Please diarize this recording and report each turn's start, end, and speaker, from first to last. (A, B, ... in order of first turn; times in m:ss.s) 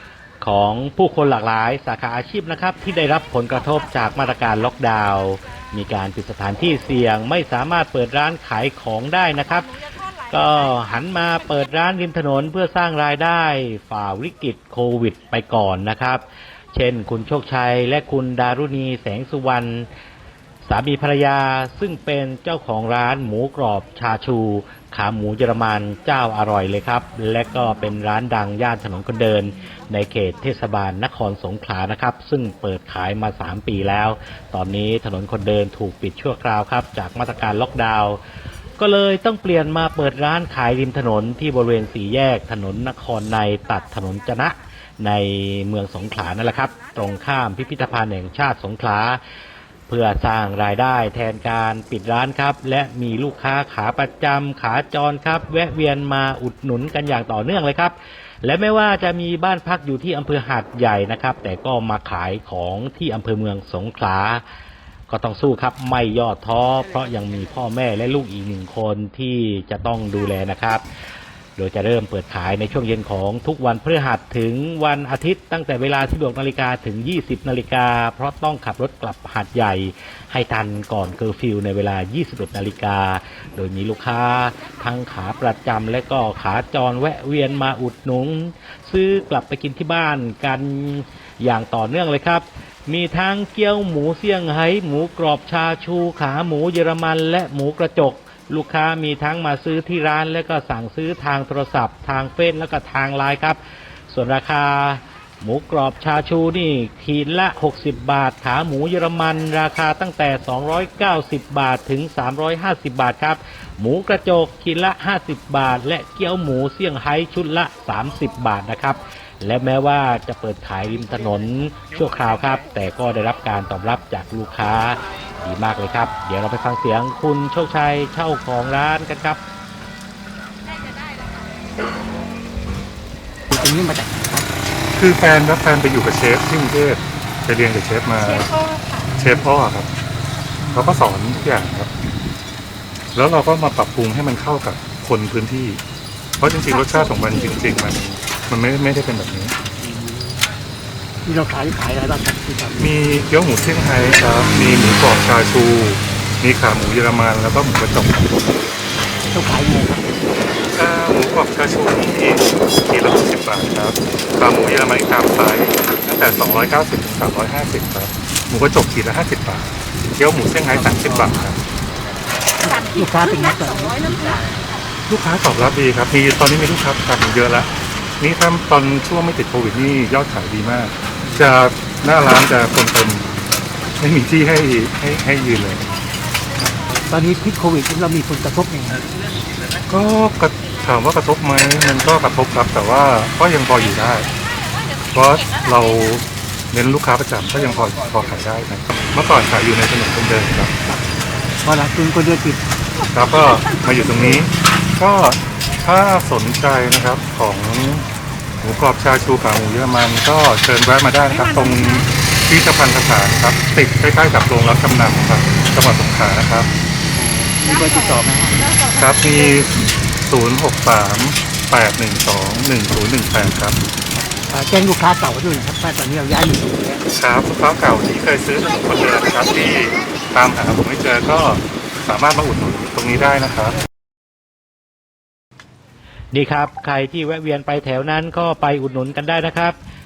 0:00.4-0:09.8 A
0:10.3-0:19.9 A
0:20.6-0:38.2 A
0:38.8-0:49.2 A
0:49.9-1:04.4 A
1:05.1-1:10.8 A
1:11.6-1:43.6 A
1:44.1-2:09.4 A
2:13.5-2:14.5 B
2:15.0-2:18.5 C
2:18.4-2:19.1 D
2:19.2-2:19.9 C
2:20.7-2:21.9 C
2:23.2-2:25.8 C
2:26.4-2:29.6 C
2:26.9-2:27.4 D
2:29.8-2:30.4 B
2:31.2-2:32.9 B
2:32.8-2:38.4 C
2:39.3-2:40.1 B
2:40.7-2:51.6 C
2:50.7-2:51.4 B
2:52.6-2:54.4 B
2:52.9-2:54.5 D
2:55.1-3:03.3 C
3:04.0-3:06.0 C
3:06.8-3:09.1 B
3:09.9-3:14.3 C
3:15.1-3:20.7 C
3:21.6-3:22.6 B
3:23.1-3:28.1 C
3:28.6-3:36.7 C
3:37.1-3:38.7 B
3:39.0-3:43.8 C
3:44.2-3:47.0 B
3:47.1-3:53.8 C
3:56.3-3:59.8 A